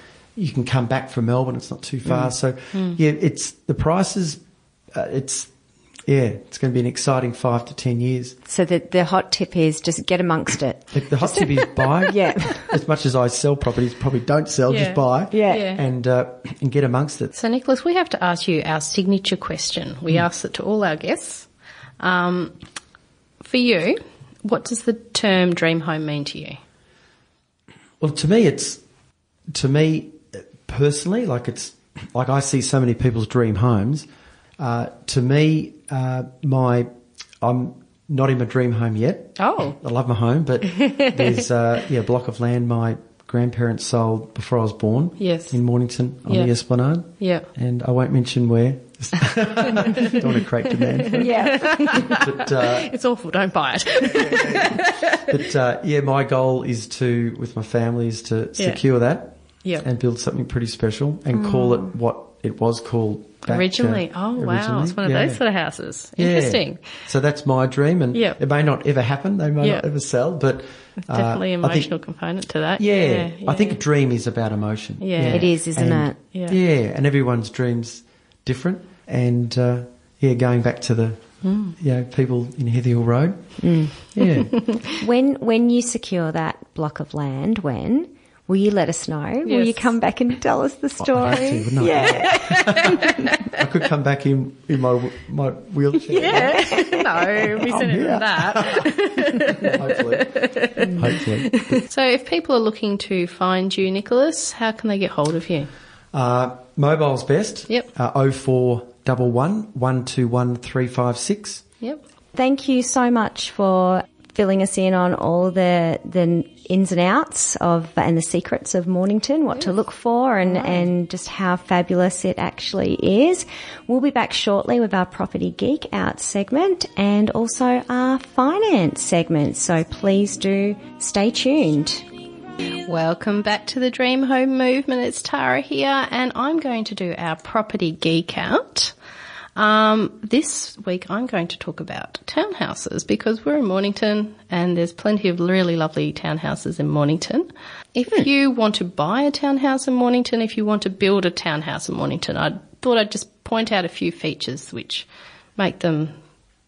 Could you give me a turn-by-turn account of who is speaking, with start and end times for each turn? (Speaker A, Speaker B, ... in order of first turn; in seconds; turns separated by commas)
Speaker A: 0.4-5.5, Speaker B: 2.7-3.0, Speaker A: 6.1-8.4, Speaker C: 8.5-12.7, Speaker A: 10.9-17.3, Speaker B: 14.7-15.8, Speaker C: 15.3-15.6, Speaker B: 17.4-21.5, Speaker B: 22.0-22.6, Speaker B: 23.4-26.6, Speaker A: 28.0-28.8, Speaker A: 29.5-34.1, Speaker A: 34.6-36.9, Speaker A: 37.4-52.9, Speaker B: 39.4-39.8, Speaker B: 40.7-41.3, Speaker B: 45.2-45.6, Speaker B: 46.3-46.5, Speaker B: 47.2-47.5, Speaker B: 50.9-55.4, Speaker C: 51.2-52.0, Speaker A: 54.0-65.4, Speaker B: 58.6-58.8, Speaker C: 61.4-61.9, Speaker B: 63.4-67.0, Speaker A: 66.2-71.9, Speaker B: 68.1-68.4, Speaker B: 69.6-69.9, Speaker B: 71.0-73.8, Speaker A: 72.8-84.7, Speaker B: 75.0-75.7, Speaker C: 75.3-76.2, Speaker B: 76.3-76.6, Speaker B: 81.4-81.8, Speaker C: 83.6-84.0, Speaker C: 85.0-92.9, Speaker B: 89.5-89.9, Speaker A: 91.0-101.8, Speaker B: 92.0-93.2, Speaker B: 96.1-105.7, Speaker A: 106.1-111.7, Speaker C: 112.3-132.1, Speaker B: 120.5-120.8, Speaker B: 132.8-138.9, Speaker B: 139.6-156.2